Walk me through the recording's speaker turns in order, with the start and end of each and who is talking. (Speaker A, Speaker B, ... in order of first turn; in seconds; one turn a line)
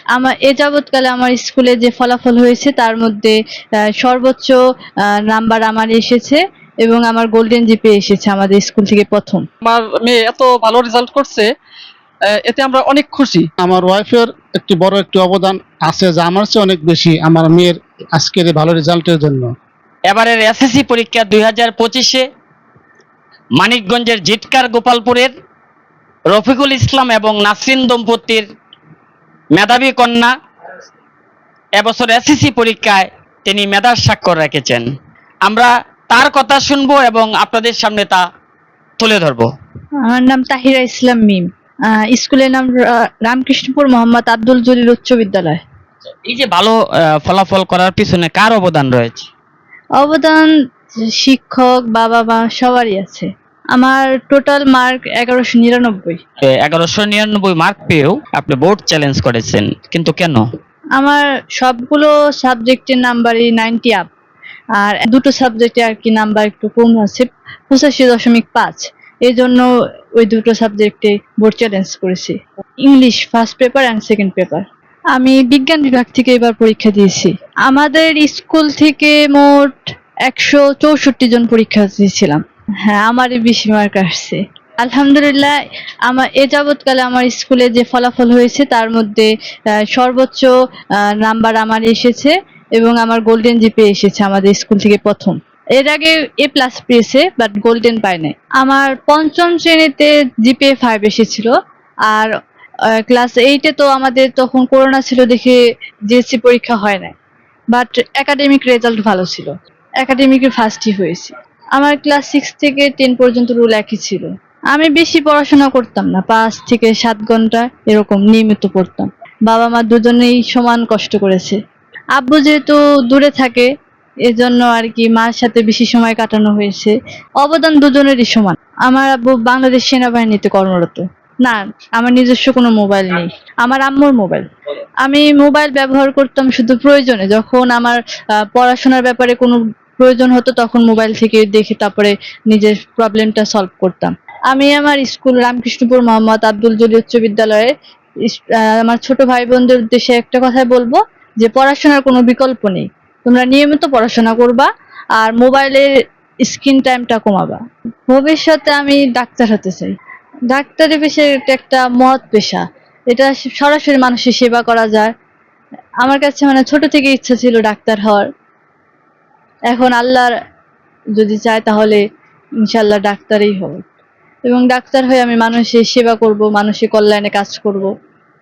Speaker A: 0.1-3.4
Speaker A: 4.0-9.4
Speaker B: 9.6-11.5
Speaker B: 12.3-13.4
Speaker C: 13.6-19.5
Speaker D: 20.1-22.2
Speaker D: 23.6-25.3
Speaker D: 26.3-28.4
Speaker D: 29.5-30.3
Speaker D: 31.8-34.9
Speaker D: 35.4-38.2
Speaker D: 39.0-39.5
Speaker A: 40.0-45.6
Speaker D: 46.3-49.2
Speaker A: 50.0-50.5
Speaker A: 51.0-56.2
Speaker D: 56.6-60.4
Speaker A: 61.0-64.1
Speaker A: 64.8-69.7
Speaker A: 70.2-85.5
Speaker A: 86.0-89.3
Speaker A: 89.9-101.5
Speaker A: 102.9-107.1
Speaker A: 107.7-121.6
Speaker A: 122.2-123.7
Speaker A: 124.3-134.4
Speaker A: 135.0-138.0
Speaker A: 138.5-147.7
Speaker A: 148.2-155.9
Speaker A: 156.4-159.9
Speaker A: 160.5-165.1
Speaker A: 166.0-168.3
Speaker A: 169.7-170.3
Speaker A: 171.2-172.0
Speaker A: 172.7-173.8
Speaker A: 174.4-177.9